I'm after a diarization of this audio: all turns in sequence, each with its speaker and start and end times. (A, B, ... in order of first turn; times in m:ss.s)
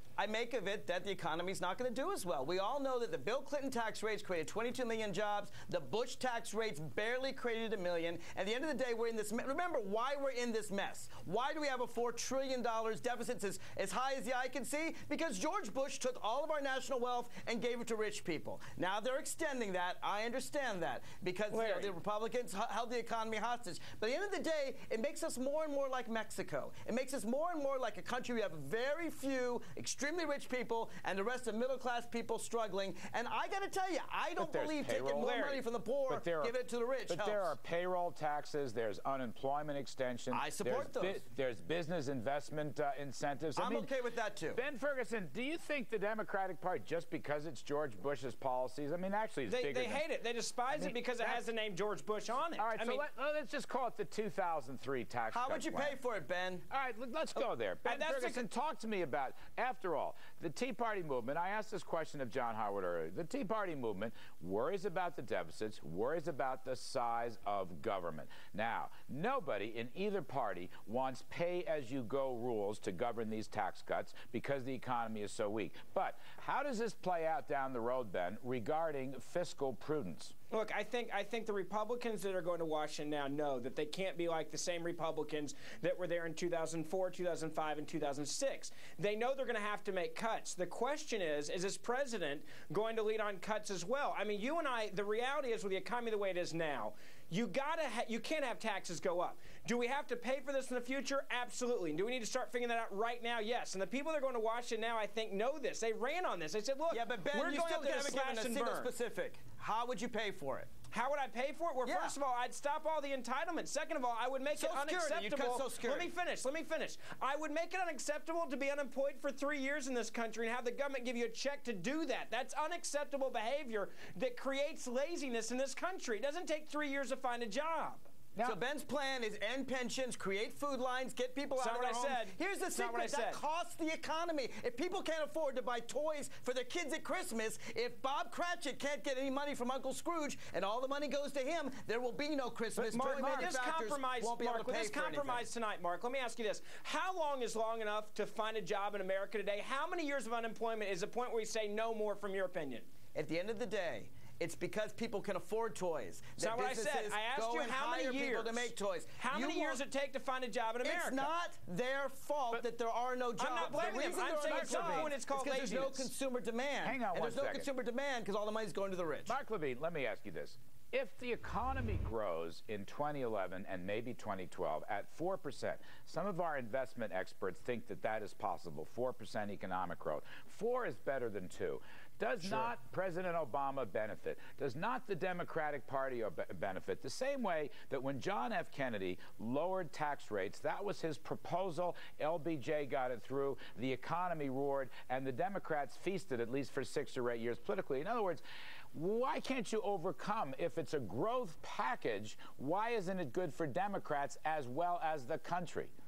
0:00.2-0:37.5 A
0:21.5-0:21.9 B
0:34.4-0:36.5 C
0:37.1-0:43.9 C
0:40.3-0:41.2 A
0:43.6-0:44.6 A
0:44.5-0:50.0 C
0:49.5-0:53.0 B
0:50.7-0:51.4 C
0:52.6-0:56.0 C
0:55.3-0:56.7 A
0:56.7-1:20.3 C
0:57.8-0:58.4 B
1:20.5-1:48.9 B
1:46.9-1:50.7 A
1:50.9-2:08.0 B
1:51.8-1:52.2 A
1:54.5-1:56.1 A
2:08.4-2:25.4 A
2:11.6-2:13.4 B
2:22.8-2:32.9 B
2:22.8-2:23.3 C
2:33.1-2:39.8 A
2:36.4-2:41.3 B
2:40.8-2:49.3 A
2:43.4-2:46.1 B
2:44.4-2:45.1 C
2:46.8-2:47.7 C
2:49.3-3:18.4 C
3:18.9-3:25.9 C